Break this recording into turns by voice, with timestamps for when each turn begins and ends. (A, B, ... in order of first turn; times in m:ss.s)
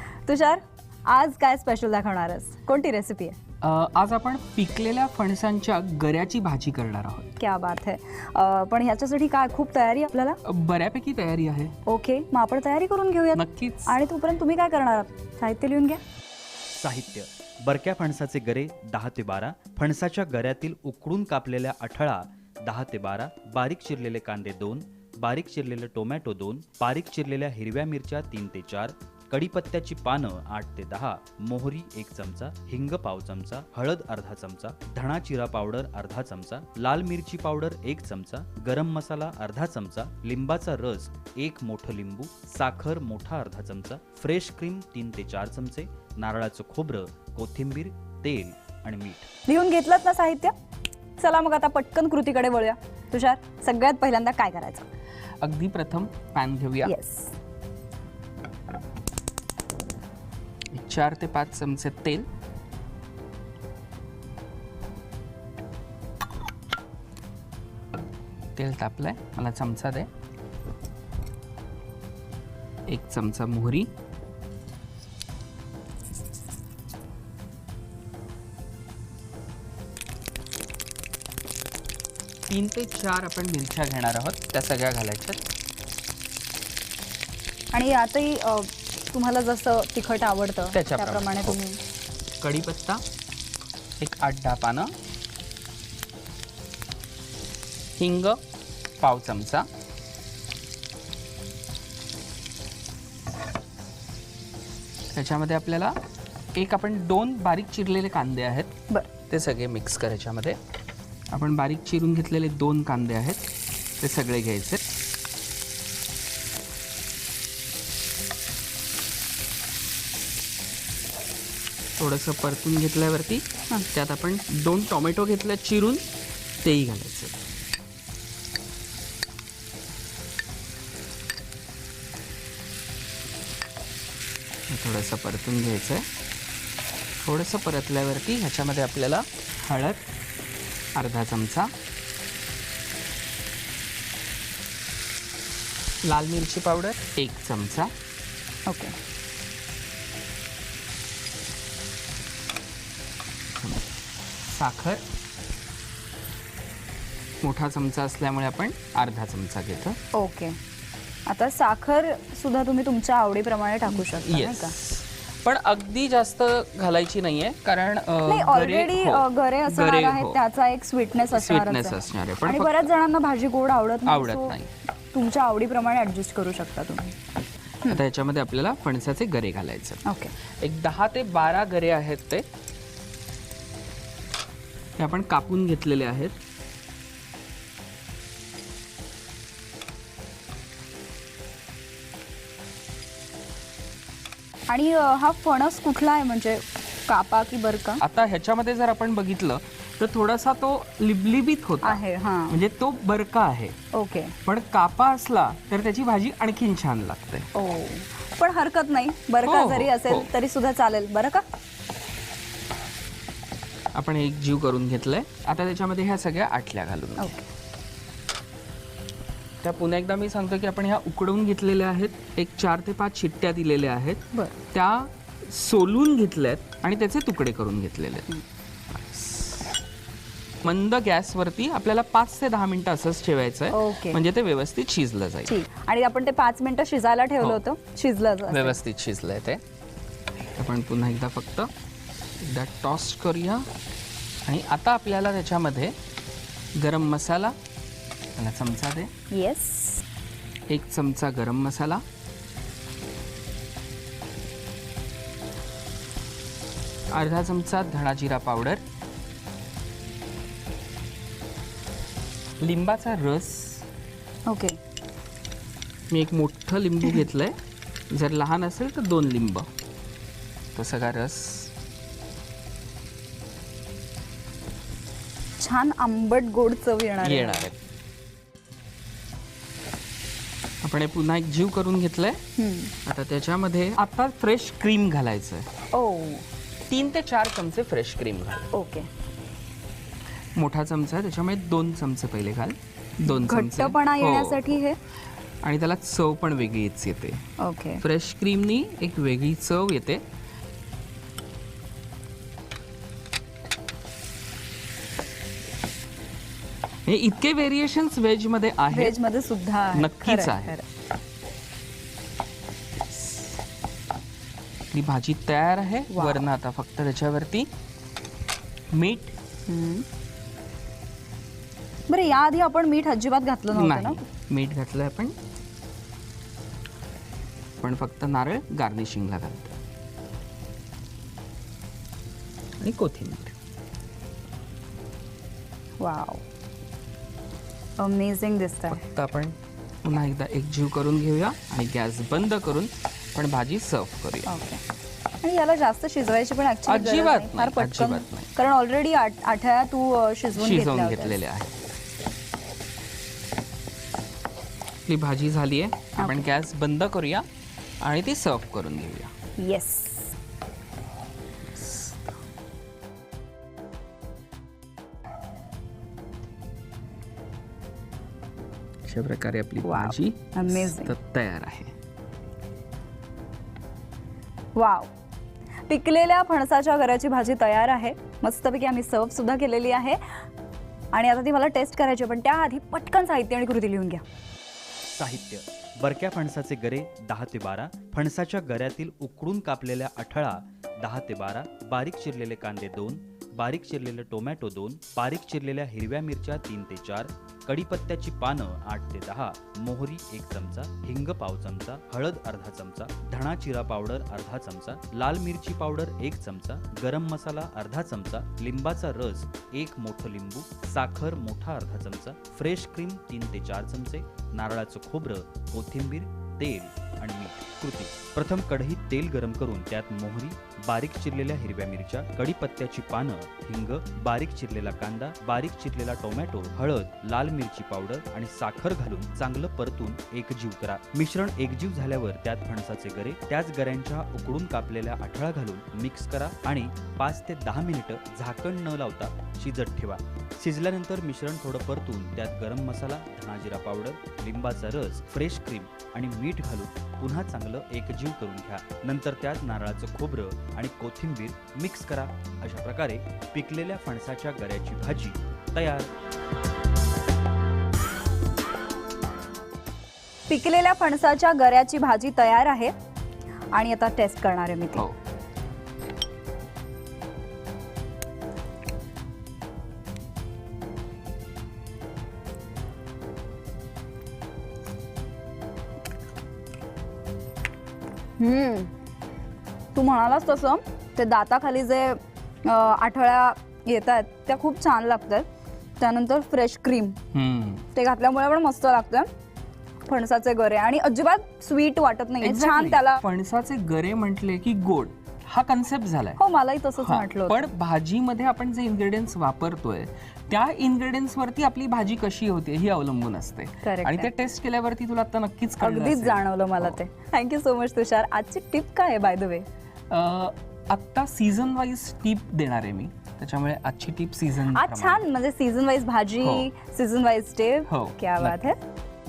0:00.2-0:03.4 A
0:03.6-0:07.3 B
0:07.4-0:10.4 A
0:10.4-0:11.7 B
0:11.8-0:16.0 A
0:13.3-0:14.0 B
0:16.7-0:49.3 C
0:49.5-0:50.5 A
0:51.2-0:54.8 A
0:55.4-0:56.9 B
0:56.8-0:57.3 A
1:00.7-1:02.3 B
1:08.6-1:10.1 B
1:12.9-1:13.9 B
1:22.5-1:25.4 B
1:27.7-1:31.8 A
1:30.7-1:31.6 B
1:32.4-1:33.0 B
1:34.0-1:34.9 B
1:38.0-1:38.4 B
1:39.0-1:39.7 B
1:45.1-1:46.0 B
1:46.5-1:48.7 B
1:49.3-1:50.6 B
1:51.3-1:53.4 B
1:54.0-1:54.8 B
2:02.0-2:07.4 B
2:14.7-2:16.0 B
2:17.2-2:20.0 B
2:20.9-2:21.7 B
2:26.0-2:27.9 B
2:28.6-2:28.9 A
2:33.6-2:33.9 B
2:34.4-2:35.0 B
2:37.4-2:40.0 B
2:40.1-2:40.6 A
2:41.2-2:44.7 A
2:43.9-2:50.4 B
2:48.2-2:54.6 A
2:51.3-2:52.9 B
2:54.0-2:54.7 B
2:55.1-2:57.1 A
2:57.9-3:00.0 B
3:00.0-3:00.3 A
3:00.6-3:02.4 B
3:05.0-3:06.4 B
3:14.7-3:18.0 A
3:18.0-3:23.8 B
3:21.8-3:22.6 A
3:23.9-3:24.4 A
3:24.4-3:27.5 B
3:27.5-3:31.4 A
3:29.4-3:30.3 B
3:33.9-3:37.4 B
3:37.2-3:37.4 A
3:39.6-3:48.4 B
3:49.0-3:49.6 B
3:50.6-3:55.5 B
3:53.7-3:54.2 A
3:55.4-3:58.8 A
3:58.5-3:59.6 B
4:00.6-4:01.7 B
4:02.4-4:03.7 B
4:04.4-4:05.9 B
4:06.8-4:07.6 B
4:08.4-4:09.1 B
4:09.3-4:10.0 A
4:10.7-4:12.0 B
4:17.1-4:18.8 B
4:22.6-4:23.9 B
4:24.5-4:24.8 A
4:26.1-4:27.5 B
4:28.1-4:29.7 B
4:30.7-4:31.7 B
4:35.6-4:37.7 A
4:37.2-4:37.8 B
4:40.8-4:42.4 B
4:42.6-4:42.9 A
4:43.0-4:45.7 B
4:45.9-4:46.4 A
4:46.9-4:48.7 B
4:48.7-4:49.1 A
4:50.6-4:54.8 B
4:53.2-4:55.0 A
4:55.6-4:57.4 B
4:57.6-4:58.0 A
4:58.0-5:00.2 B
5:07.0-5:09.2 B
5:08.9-5:10.8 A
5:09.9-5:10.8 B
5:14.9-5:17.7 B
5:16.1-5:16.4 A
5:18.9-5:19.3 B
5:19.7-5:20.0 A
5:22.1-5:24.2 A
5:23.7-5:25.4 B
5:27.8-5:29.7 B
5:32.8-5:33.5 B
5:36.0-5:36.4 A
5:38.0-5:39.0 A
5:38.9-5:44.5 B
5:44.4-5:44.8 A
5:45.4-5:51.4 A
5:46.9-5:48.5 B
5:50.5-5:51.7 B
5:55.1-5:57.4 B
5:56.2-5:56.5 A
5:58.0-5:59.3 B
5:59.6-6:00.3 A
6:09.0-6:11.9 B
6:09.8-6:11.1 A
6:14.8-6:15.1 A
6:15.9-6:20.2 A
6:21.1-6:24.2 A
6:25.0-7:36.1 C
7:40.5-7:42.9 A
7:43.7-7:45.0 A
7:58.4-7:58.9 A
7:59.9-8:05.4 A
8:06.0-8:07.2 A
8:07.3-8:07.8 B
8:07.9-8:09.3 A
8:10.0-8:13.2 A
8:12.4-8:16.4 B
8:16.4-8:17.7 A
8:17.0-8:27.0 B
8:23.8-8:24.3 A
8:25.8-8:29.6 A
8:30.1-8:35.2 B
8:34.7-8:38.8 A
8:36.4-8:36.7 B
8:37.9-8:38.6 B